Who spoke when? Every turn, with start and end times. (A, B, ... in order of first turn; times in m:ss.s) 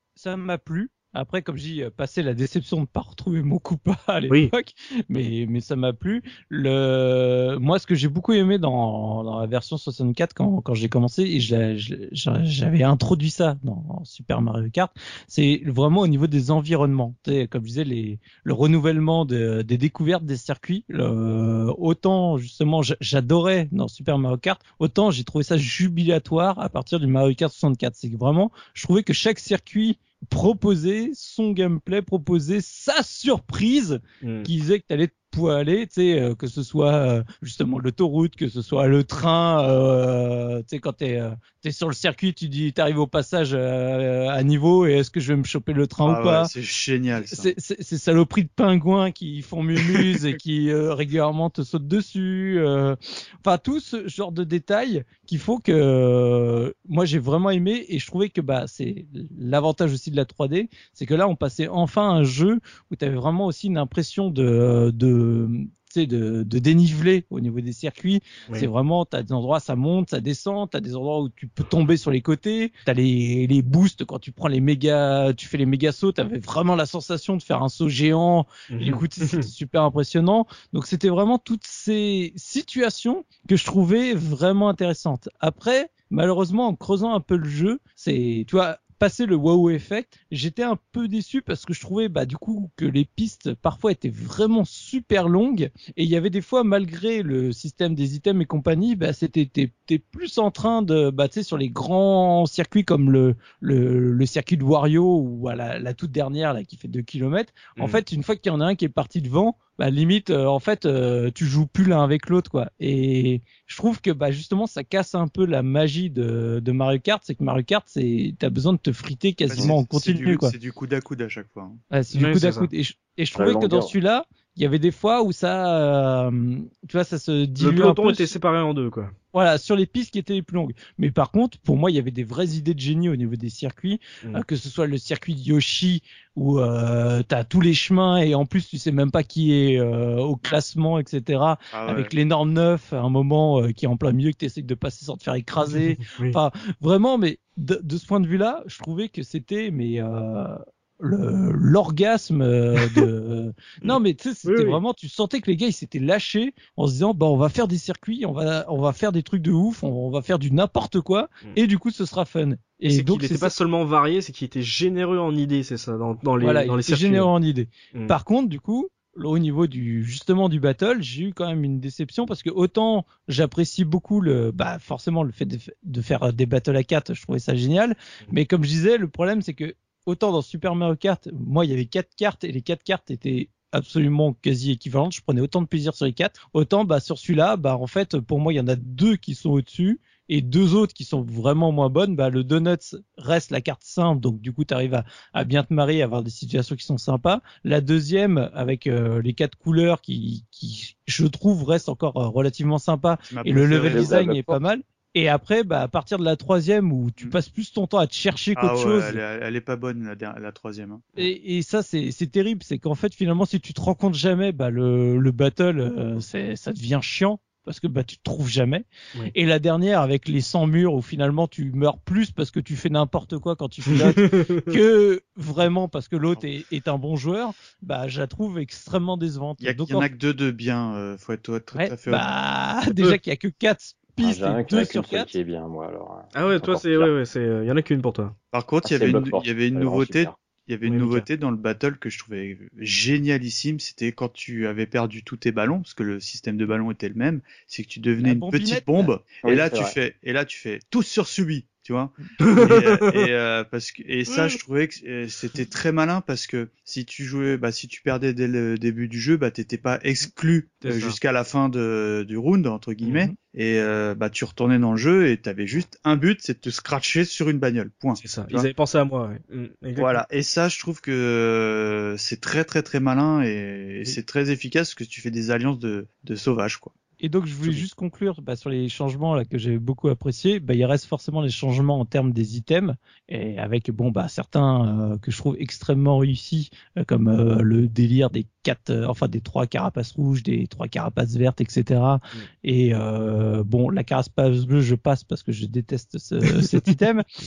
0:00.2-0:46.5 A
0:34.2-0:34.5 B
0:46.0-0:47.5 C
0:47.2-2:00.5 A
0:49.8-0:50.2 C
1:18.7-1:19.5 B
1:59.5-2:01.8 C
2:01.9-2:08.3 A
2:02.1-2:02.7 B
2:03.4-2:03.9 D
2:07.6-2:09.1 B
2:09.3-2:43.6 A
2:21.7-2:22.1 C
2:25.7-2:26.4 B
2:33.8-2:34.8 B
2:42.9-2:47.3 B
2:46.4-3:29.2 A
3:23.3-3:24.2 C
3:23.8-3:24.6 D
3:28.6-3:31.2 C
3:31.2-3:50.1 A
3:43.9-3:44.6 B
3:49.6-3:52.3 C
3:51.7-3:55.3 A
3:54.2-3:57.1 D
3:56.3-3:58.4 B
3:58.5-4:28.7 C
3:58.8-4:00.4 D
4:00.8-4:01.3 B
4:08.2-4:09.1 A
4:09.4-4:10.0 D
4:12.4-4:13.3 B
4:14.3-4:14.6 B
4:20.8-4:21.2 B
4:28.2-4:30.2 B
4:30.0-4:36.9 C
4:37.2-4:57.2 A